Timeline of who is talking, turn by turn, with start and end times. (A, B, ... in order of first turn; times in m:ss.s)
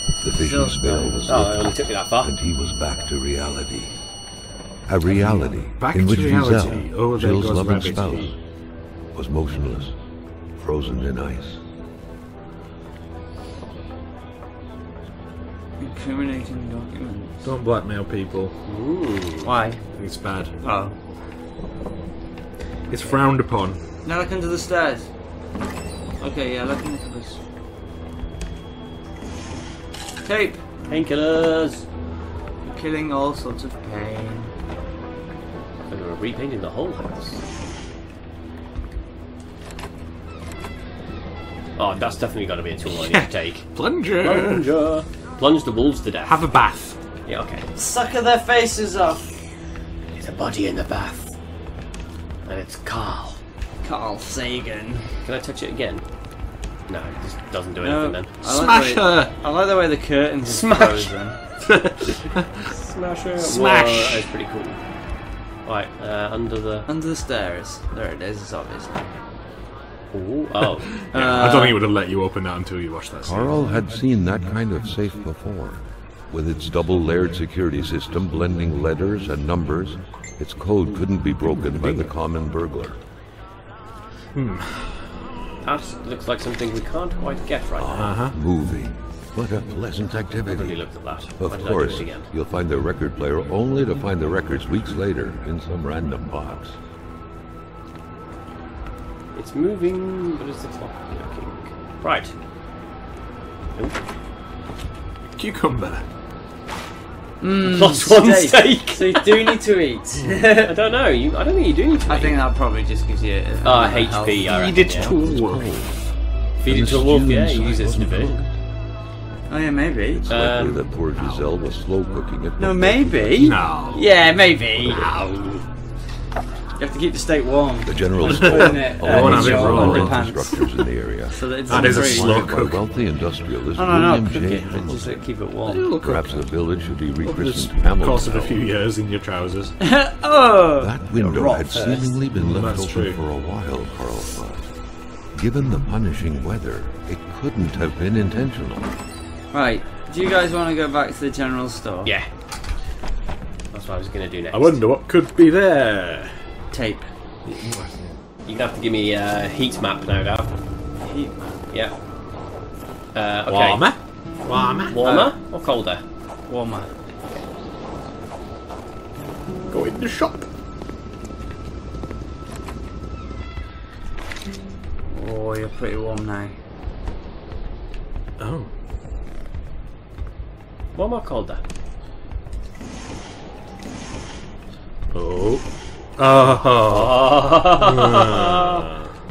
0:00.2-0:03.9 A
0:00.3-0:01.2 B
0:01.2-0:02.3 C
0:04.9-0:08.4 A
0:05.8-0:08.3 D
0:09.1-0:10.0 A
0:10.6-0:11.6 A
0:15.8-0:17.4 B
0:17.4-0:18.5 D
0:18.7-0:19.5 C
0:19.4-0:19.8 B
0:19.9-0:20.5 D
0:20.6-0:21.0 B
0:22.9-0:23.8 D
0:24.0-0:25.1 B
0:26.2-0:27.4 B
0:30.2-0:30.8 B
0:30.9-0:31.9 C
0:32.6-0:34.5 B
0:35.9-0:37.4 C
0:41.8-0:46.5 C
0:42.8-0:44.7 D
0:46.2-0:47.0 D
0:47.2-0:47.7 C
0:47.7-0:49.7 B
0:50.2-0:51.3 C
0:52.4-0:53.4 C
0:53.8-0:55.2 B
0:55.2-0:56.0 C
0:56.9-0:58.3 C
0:57.8-1:01.4 B
0:58.4-0:59.3 D
1:00.4-1:01.1 C
1:01.7-1:02.5 D
1:02.6-1:04.8 C
1:03.4-1:04.3 D
1:05.6-1:06.9 C
1:06.9-1:09.1 B
1:10.1-1:11.0 C
1:11.1-1:11.8 B
1:11.1-1:13.6 D
1:13.2-1:23.0 A
1:21.6-1:22.1 D
1:24.3-1:25.2 D
1:25.6-1:28.2 C
1:27.8-1:36.8 A
1:28.0-1:28.4 D
1:30.5-1:32.3 C
1:39.3-1:42.3 C
1:45.4-1:46.0 D
1:47.4-1:50.7 B
1:47.6-1:49.6 C
1:50.2-1:50.5 D
1:50.6-1:52.4 C
1:52.1-1:54.5 B
1:53.6-1:55.2 C
1:54.5-1:55.7 D
1:55.0-1:56.0 A
1:56.6-1:58.4 C
1:56.6-1:58.4 A
1:59.5-2:00.3 B
2:00.1-2:03.5 A
2:00.3-2:00.8 C
2:01.1-2:01.5 D
2:02.6-2:05.1 B
2:03.4-2:04.0 D
2:04.8-2:05.1 A
2:04.9-2:05.6 D
2:06.8-2:12.5 B
2:07.8-2:15.2 A
2:08.3-2:10.5 D
2:11.7-2:12.9 D
2:13.7-2:15.9 B
2:15.6-2:16.5 D
2:15.9-2:18.6 A
2:17.2-2:19.7 D
2:19.8-2:20.9 B
2:20.8-2:24.7 A
2:21.2-2:22.1 C
2:21.4-2:23.2 D
2:25.3-2:28.9 A
2:29.5-2:32.1 B
2:33.7-2:34.8 C
2:34.5-2:36.3 D
2:36.7-2:37.1 B
2:37.4-2:38.2 D
2:38.4-2:40.5 C
2:41.0-2:41.6 B
2:43.1-2:43.9 C
2:43.4-2:45.0 D
2:44.9-2:46.0 C
2:45.0-2:45.4 B
2:46.5-2:46.9 B
2:49.7-2:50.4 D
2:55.1-2:56.5 B
2:58.4-2:58.7 D
3:00.9-3:01.6 C
3:05.1-3:05.6 D
3:06.2-3:08.9 D
3:06.8-3:08.7 C